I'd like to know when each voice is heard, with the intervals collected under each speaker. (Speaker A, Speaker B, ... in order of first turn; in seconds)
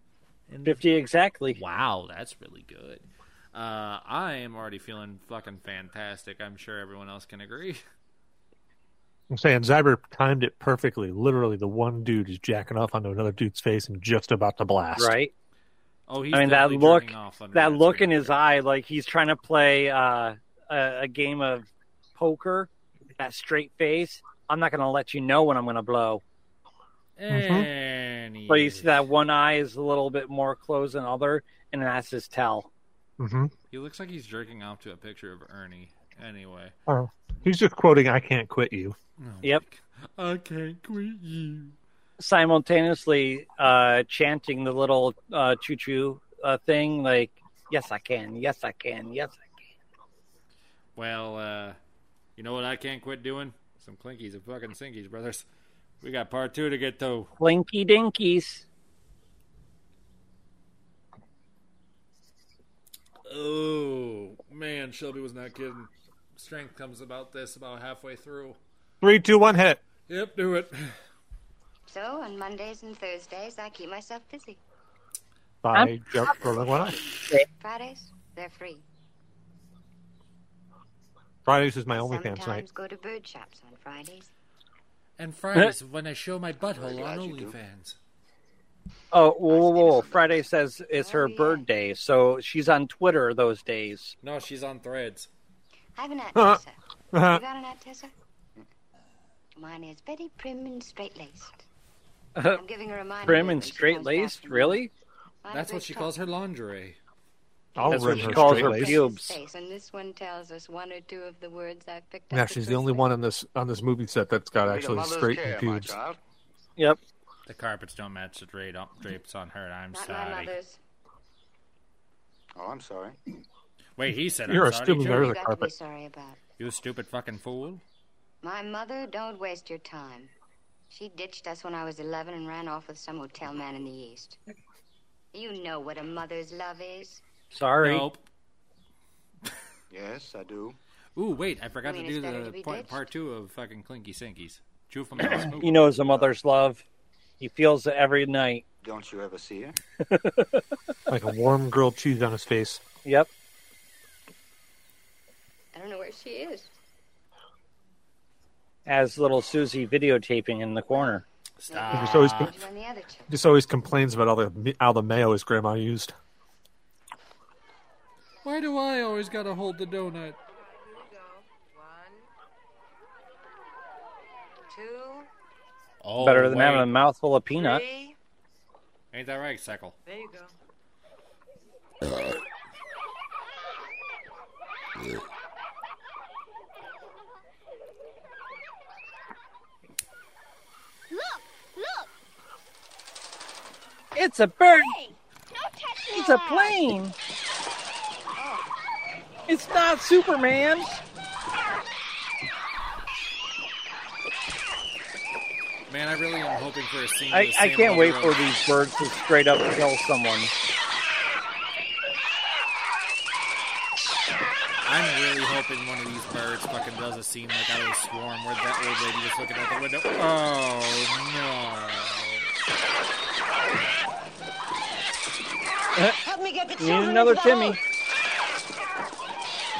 Speaker A: 0.5-0.8, 1.5-7.8, 16.1-18.4, 27.2-28.9, 33.7-36.8, 39.2-41.8, 51.0-51.8, 52.4-55.5, 56.0-57.3, 63.3-68.6, 70.1-71.0, 85.2-88.0, 94.2-95.3, 105.5-107.0, 117.5-120.5, 124.0-125.3, 126.6-127.8, 137.8-138.2, 141.2-145.9, 161.6-162.5, 168.4-170.4, 176.0-176.9, 179.1-180.0, 205.9-208.4, 214.8-222.5
Speaker B: 0.6-1.6, 15.0-15.3, 16.3-26.2, 28.5-32.7, 42.2-49.4, 57.4-58.6, 75.7-76.4, 89.1-94.2, 102.4-102.6, 103.2-104.9, 107.9-109.4, 137.5-138.1, 145.6-146.8, 147.4-148.7, 150.1-150.6, 158.9-161.2, 176.2-177.8, 194.2-195.0, 196.1-197.2, 199.5-201.0, 207.3-210.5, 226.8-227.8
Speaker C: 9.3-15.2, 27.3-27.7, 33.2-33.5, 36.9-39.0, 69.0-69.8, 75.6-77.0, 81.5-82.7, 96.3-96.6, 97.1-97.4, 107.8-109.0, 112.3-116.0, 124.5-125.7, 151.1-152.8, 161.9-162.5, 163.3-166.2
Speaker D: 71.9-74.6, 77.6-78.8, 81.9-84.3, 90.9-91.7, 96.0-98.1, 99.5-101.7, 102.5-104.8, 105.4-106.1, 107.8-113.1, 119.9-120.8, 125.0-126.4, 128.4-130.3, 130.9-134.4, 135.3-137.2, 141.8-143.1, 155.7-156.7, 160.9-163.3
Speaker E: 86.6-87.5, 114.6-116.2, 122.6-123.2, 139.9-140.8, 148.8-149.8
Speaker F: 171.2-172.2, 174.7-175.3, 177.6-178.2, 180.1-180.4, 226.3-226.8
Speaker G: 191.1-192.1, 195.1-196.8